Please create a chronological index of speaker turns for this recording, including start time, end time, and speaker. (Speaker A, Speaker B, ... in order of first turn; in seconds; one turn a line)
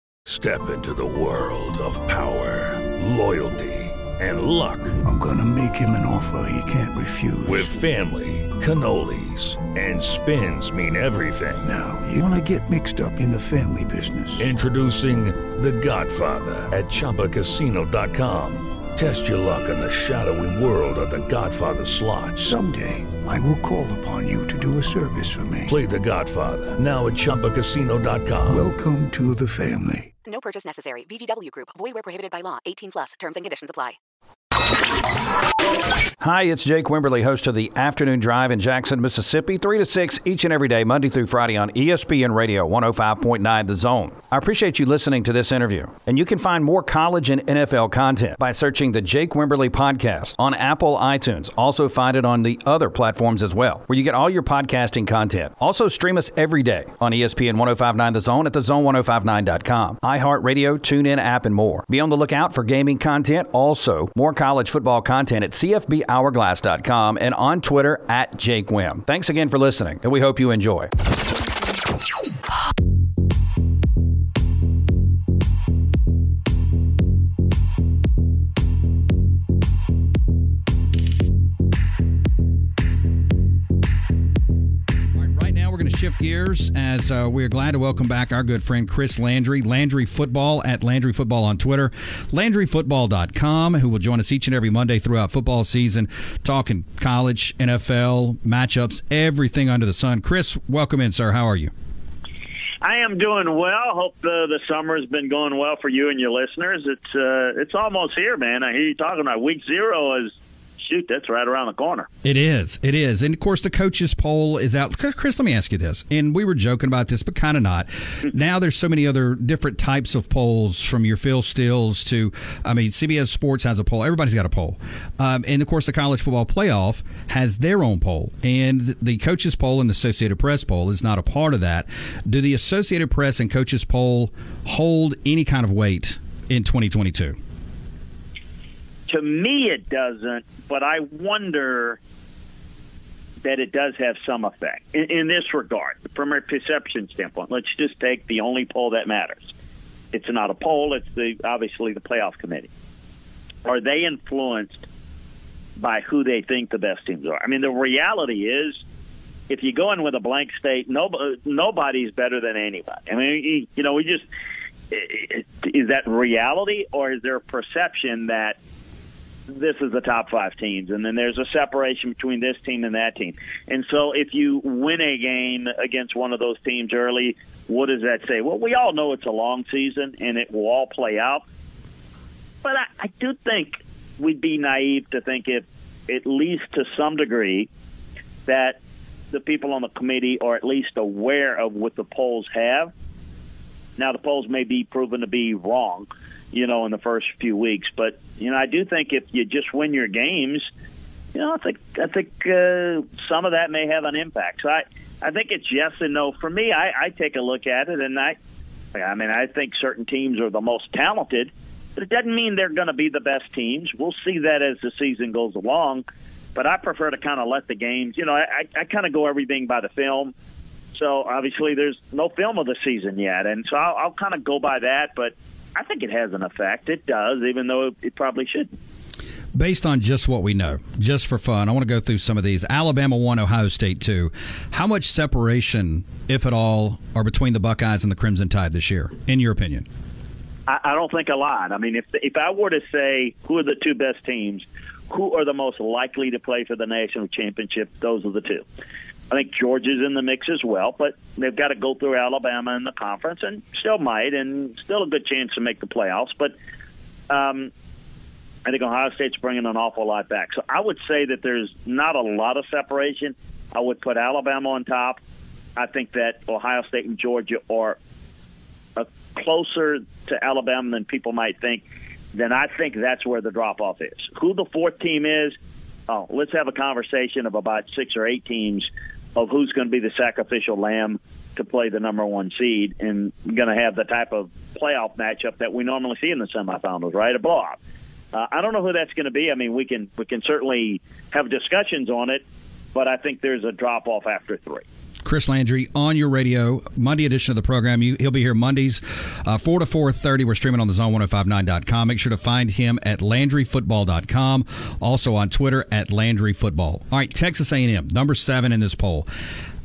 Speaker A: 0.2-5.0
Speaker B: 5.0-7.7
Speaker A: 7.4-11.7
Speaker B: 11.6-14.5
Speaker A: 14.4-22.5
Speaker B: 22.4-25.8
Speaker A: 25.6-28.7
Speaker B: 28.5-30.1
Speaker C: 30.2-34.0
Speaker D: 36.2-70.9
Speaker D: 85.1-101.7
Speaker E: 102.8-112.1
Speaker D: 112.2-137.4
Speaker E: 139.1-142.0
Speaker E: 143.4-149.5
Speaker E: 150.1-152.7
Speaker E: 153.6-154.8
Speaker E: 155.8-158.8
Speaker E: 159.5-164.2
Speaker E: 164.9-168.6
Speaker E: 169.5-181.4
Speaker E: 182.6-187.7
Speaker E: 188.4-188.8
Speaker E: 189.3-192.9
Speaker E: 194.0-200.7
Speaker E: 201.3-208.4
Speaker E: 208.9-220.3
Speaker E: 220.9-228.7
Speaker D: 229.5-239.8
Speaker E: 240.7-248.6
Speaker E: 249.3-256.5
Speaker E: 257.3-257.7
Speaker E: 258.6-265.2
Speaker E: 265.8-268.0
Speaker E: 269.0-275.6
Speaker E: 276.1-287.8
Speaker E: 288.3-294.8
Speaker D: 295.2-309.3